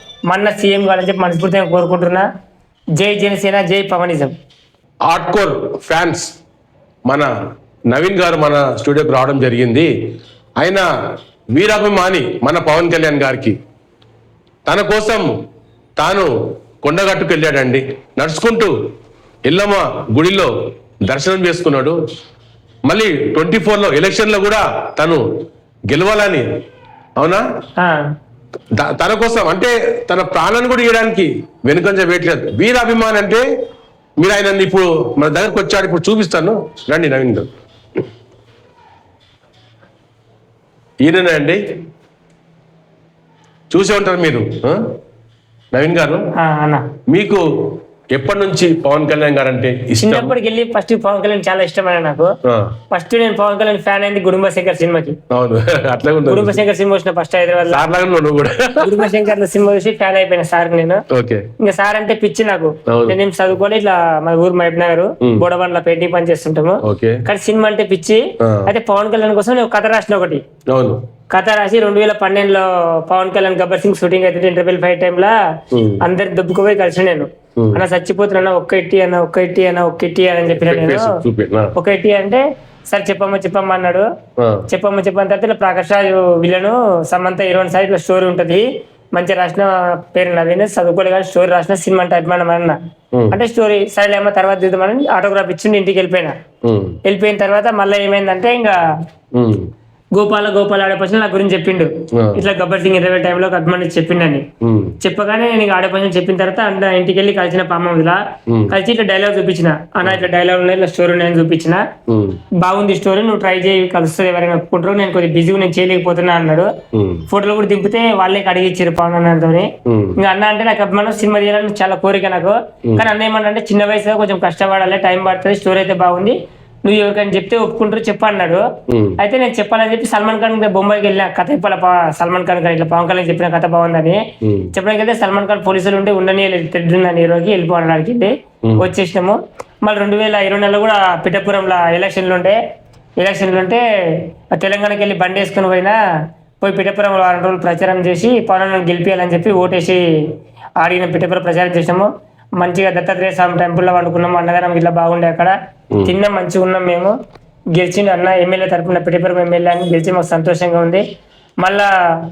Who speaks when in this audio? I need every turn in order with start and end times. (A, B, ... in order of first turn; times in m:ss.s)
0:00.3-0:02.3 A
0:03.0-0:04.3 A
0:05.1-0:06.3 B
0:07.9-0:09.9 B
0:10.6-0:10.8 B
0:11.6-0:13.6 B
0:14.7-0:15.3 B
0:16.0-0:16.3 B
0:16.8-0:18.7 B
0:19.5-0:20.5 B
0:21.0-0:22.0 B
0:22.9-0:25.2 B
0:25.9-0:26.5 B
0:27.2-0:27.4 B
0:27.8-0:28.0 A
0:28.8-0:33.4 B
0:34.2-0:37.5 B
0:41.0-0:41.6 B
0:43.7-0:44.9 B
0:45.7-0:46.2 B
0:46.4-0:46.9 A
0:47.1-0:50.3 B
0:50.0-0:52.3 A
0:52.5-0:52.7 B
0:52.9-0:55.2 A
0:55.3-0:56.6 B
0:56.3-0:57.9 A
0:57.7-0:59.1 B
0:58.8-1:01.0 A
1:01.1-1:01.5 B
1:01.6-1:10.4 A
1:02.9-1:03.2 B
1:06.8-1:07.2 B
1:08.4-1:08.7 B
1:10.7-1:11.0 B
1:11.3-1:15.4 A
1:15.7-1:16.0 B
1:16.0-1:21.2 A
1:20.5-1:21.7 B
1:21.8-1:24.1 A
1:24.4-1:24.7 B
1:24.7-1:32.8 A
1:33.3-1:36.4 A
1:36.6-1:37.0 B
1:37.0-1:38.8 A
1:39.3-1:39.7 B
1:40.2-1:44.5 A
1:42.1-1:42.4 B
1:44.6-1:45.0 B
1:45.0-1:51.8 A
1:48.5-1:48.7 B
1:52.1-1:52.4 B
1:52.6-1:56.7 A
1:56.9-1:57.2 B
1:57.3-2:08.6 A
1:59.9-2:00.2 B
2:08.9-2:09.2 B
2:09.2-2:22.6 A
2:14.4-2:14.7 B
2:23.2-2:26.0 A
2:26.6-2:30.0 A
2:30.8-2:32.1 A
2:32.6-2:35.5 A
2:36.0-2:37.2 A
2:37.8-2:41.0 A
2:41.6-2:41.9 A